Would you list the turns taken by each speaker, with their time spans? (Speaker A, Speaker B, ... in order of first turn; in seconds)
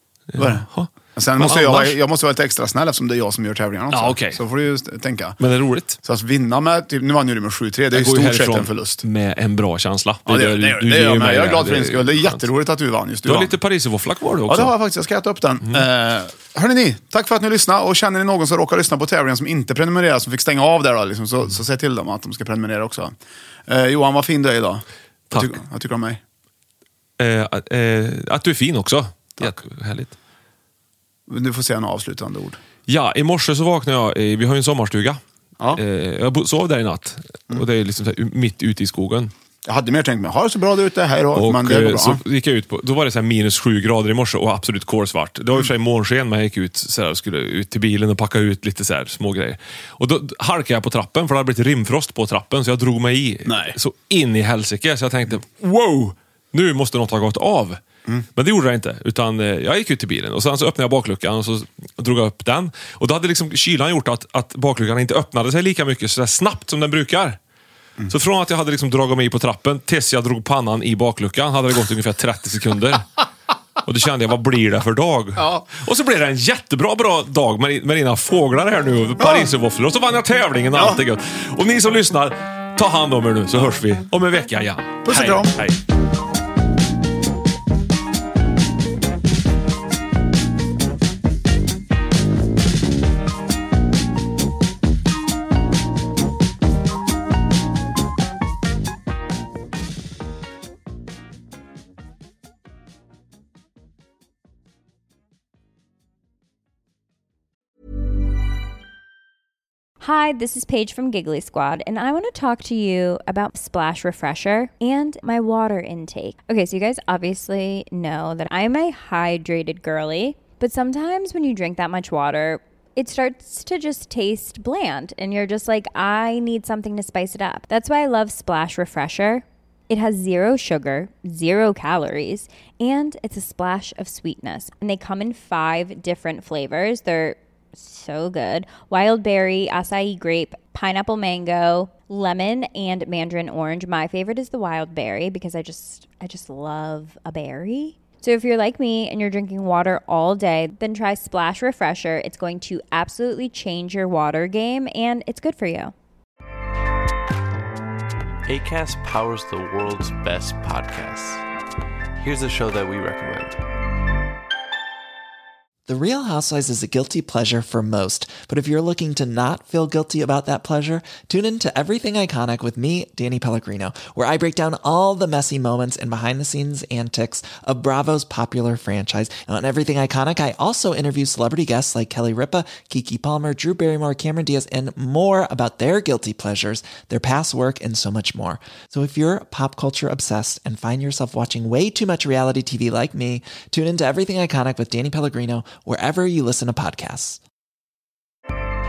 Speaker A: 0.3-2.0, 3.9-4.4, 5.4-6.0, 7.9-12.5, 13.2-14.7, 25.3-25.6, 27.2-30.2, 32.9-35.2, 35.7-39.3, 41.3-57.8, 58.4-67.4, 68.1-73.1, 73.8-85.8
Speaker B: 0.4-5.4, 6.0-9.0, 10.3-13.6, 14.5-23.1, 23.7-26.2, 31.3-32.6, 39.6-42.2, 53.5-53.8, 75.4-75.7, 79.2-79.5, 80.7-81.0, 85.0-85.6
Speaker C: 110.0-155.9
Speaker D: 158.5-161.4, 162.2-163.6
Speaker E: 165.9-197.4